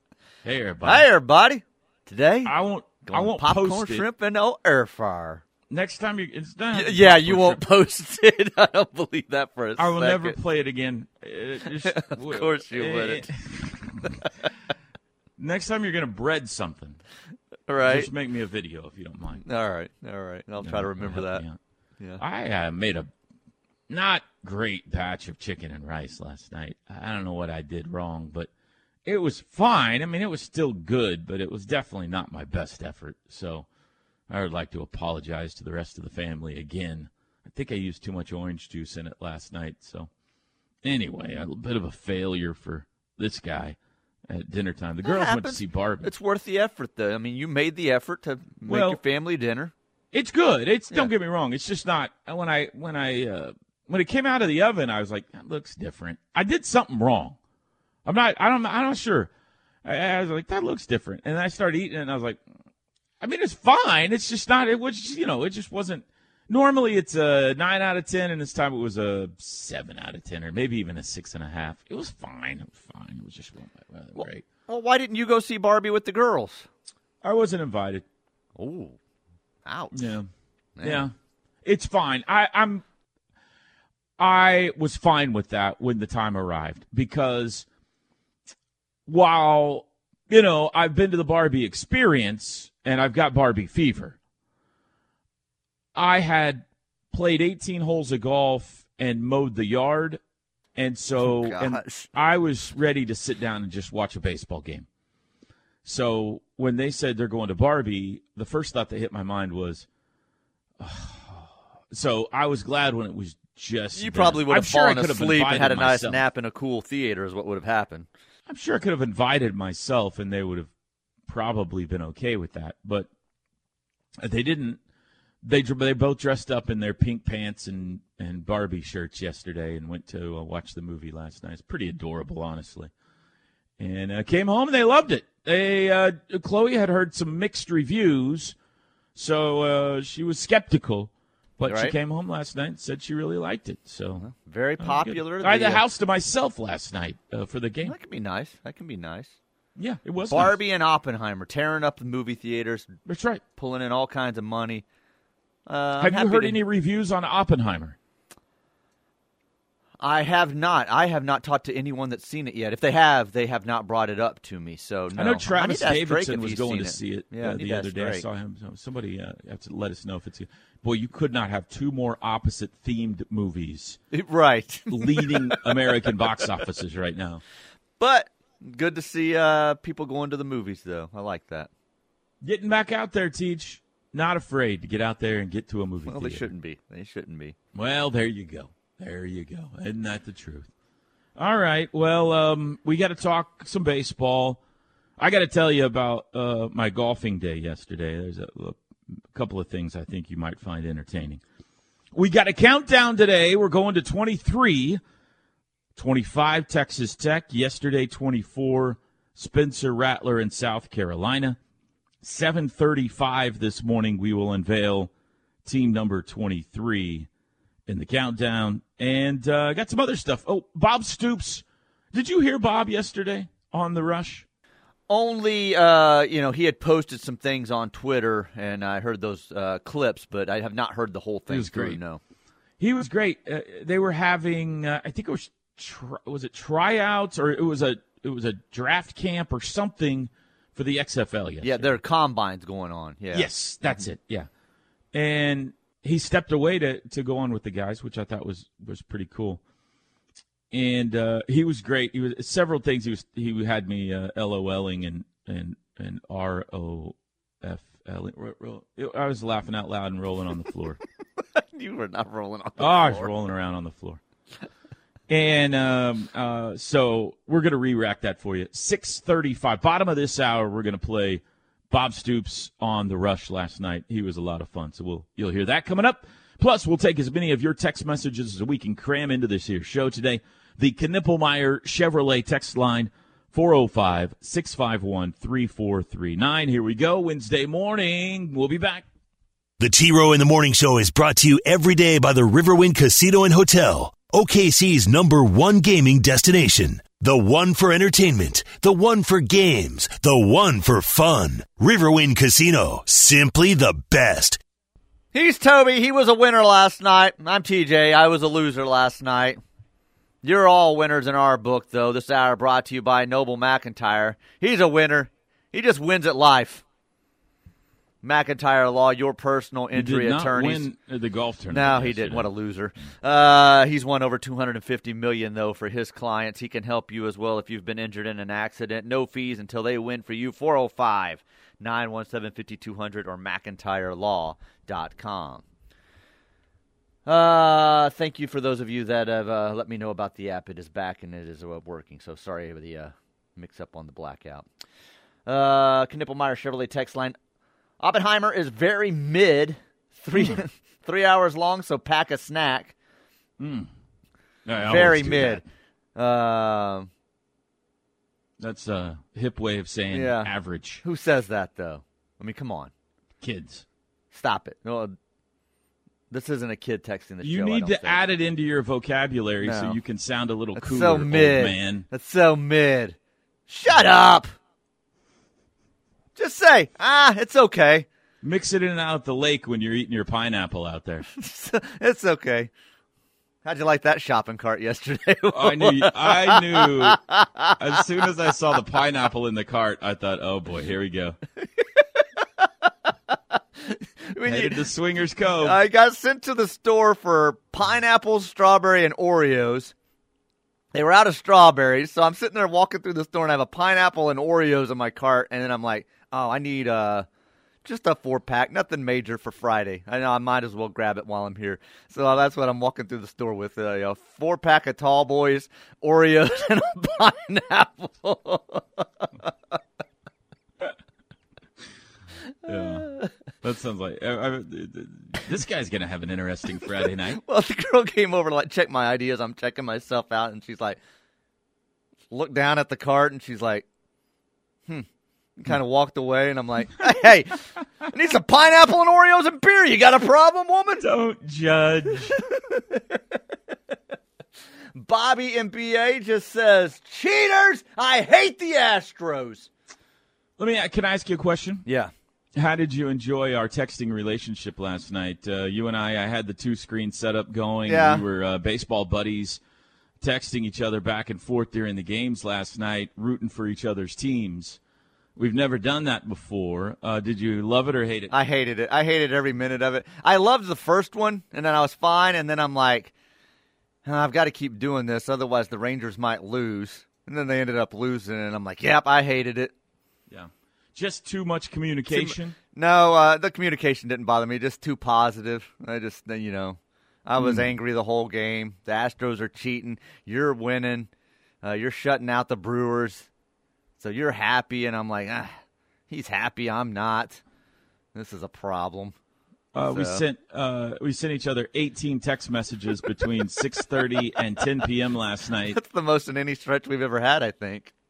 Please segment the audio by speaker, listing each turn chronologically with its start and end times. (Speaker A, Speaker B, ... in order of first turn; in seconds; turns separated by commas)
Speaker A: 0.4-1.1, Speaker B: 0.8-2.5, Speaker A: 2.4-4.0, Speaker B: 3.0-5.4, Speaker A: 5.7-7.6, Speaker B: 6.7-10.4, Speaker A: 9.8-14.2, Speaker B: 11.8-13.3, Speaker A: 15.4-17.0, Speaker B: 17.7-18.1, Speaker A: 17.8-19.4, Speaker B: 19.4-21.4, Speaker A: 20.6-21.6, Speaker A: 22.2-23.1, Speaker A: 23.9-28.5, Speaker A: 29.0-33.7, Speaker A: 34.3-40.1, Speaker A: 40.8-43.8, Speaker A: 44.3-46.1, Speaker B: 45.0-49.7, Speaker A: 48.6-49.0, Speaker A: 50.1-57.4, Speaker A: 58.0-59.3, Speaker A: 59.8-62.4, Speaker A: 63.2-74.4, Speaker B: 74.1-76.7, Speaker A: 77.2-78.0, Speaker B: 78.6-79.0, Speaker B: 79.6-80.1, Speaker A: 79.9-80.3, Speaker B: 80.8-81.1, Speaker A: 80.8-81.1, Speaker A: 81.6-82.8, Speaker A: 84.2-87.7, Speaker A: 89.1-94.2, Speaker A: 95.9-100.2, Speaker A: 100.8-104.8, Speaker B: 101.2-102.1, Speaker A: 105.8-109.8, Speaker A: 110.8-116.2, Speaker B: 114.0-118.1, Speaker A: 118.5-120.7, Speaker A: 121.2-123.1, Speaker A: 124.2-124.8, Speaker A: 125.4-132.9, Speaker A: 133.8-138.6, Speaker A: 139.1-144.2, Speaker B: 141.7-141.9, Speaker B: 144.2-145.8, Speaker A: 144.8-147.9, Speaker B: 147.8-149.4, Speaker A: 149.8-150.6, Speaker B: 150.2-152.9, Speaker A: 153.1-153.4, Speaker B: 153.6-154.8, Speaker B: 155.7-156.6, Speaker A: 156.0-157.9, Speaker B: 160.0-168.2, Speaker A: 165.1-174.0, Speaker B: 174.1-175.6, Speaker A: 174.9-177.4, Speaker B: 178.0-181.7, Speaker A: 182.4-186.5, Speaker B: 186.1-187.6, Speaker A: 187.7-190.7, Speaker A: 191.4-194.6, Speaker A: 195.2-198.8, Speaker A: 199.3-201.4, Speaker A: 202.1-205.0, Speaker A: 205.9-211.6, Speaker A: 212.2-215.1, Speaker A: 215.6-217.3, Speaker A: 217.9-224.4, Speaker B: 225.1-232.2, Speaker A: 231.5-232.0, Speaker A: 232.8-241.9, Speaker B: 241.6-244.0, Speaker A: 243.3-244.5, Speaker A: 245.1-249.6, Speaker A: 250.7-261.0, Speaker B: 261.4-263.3, Speaker A: 262.8-264.2, Speaker A: 265.3-289.0, Speaker C: 289.8-304.6, Speaker B: 305.3-309.6, Speaker B: 310.4-316.8, Speaker B: 318.2-320.9, Speaker A: 319.9-322.5, Speaker B: 321.7-335.6, Speaker B: 337.2-344.7, Speaker B: 345.4-347.4, Speaker B: 348.0-352.9, Speaker A: 350.3-350.6, Speaker A: 353.6-353.9, Speaker A: 354.6-355.6, Speaker B: 354.8-355.6, Speaker B: 356.1-357.1, Speaker A: 358.6-361.0, Speaker B: 360.1-362.9, Speaker A: 363.4-363.8, Speaker B: 364.3-365.1, Speaker B: 366.3-368.2, Speaker A: 367.4-372.1, Speaker B: 369.6-370.0, Speaker B: 370.7-373.2, Speaker B: 373.7-374.5, Speaker B: 376.3-378.1, Speaker A: 378.4-381.3, Speaker B: 381.3-382.7, Speaker B: 383.6-388.0, Speaker A: 385.5-387.2, Speaker A: 387.8-391.4, Speaker B: 391.8-392.7, Speaker B: 393.3-394.8, Speaker A: 394.4-395.8, Speaker B: 395.6-399.9, Speaker B: 400.9-407.3, Speaker B: 407.8-419.8, Speaker B: 422.6-423.3, Speaker A: 422.6-427.4, Speaker B: 427.3-431.0, Speaker B: 432.3-433.9, Speaker B: 434.9-441.1, Speaker A: 441.0-442.4, Speaker B: 442.2-443.4, Speaker B: 444.9-449.7, Speaker A: 450.6-451.8, Speaker B: 451.9-452.1, Speaker A: 452.5-459.6, Speaker B: 457.9-458.2, Speaker A: 460.2-464.8, Speaker A: 465.4-468.3, Speaker B: 468.3-473.1, Speaker B: 474.0-479.7, Speaker A: 480.3-482.6, Speaker B: 482.1-491.1, Speaker A: 487.4-487.6, Speaker B: 491.6-493.3, Speaker B: 494.0-497.4, Speaker B: 498.1-499.1, Speaker A: 499.7-505.8, Speaker B: 499.8-500.2, Speaker B: 505.7-507.9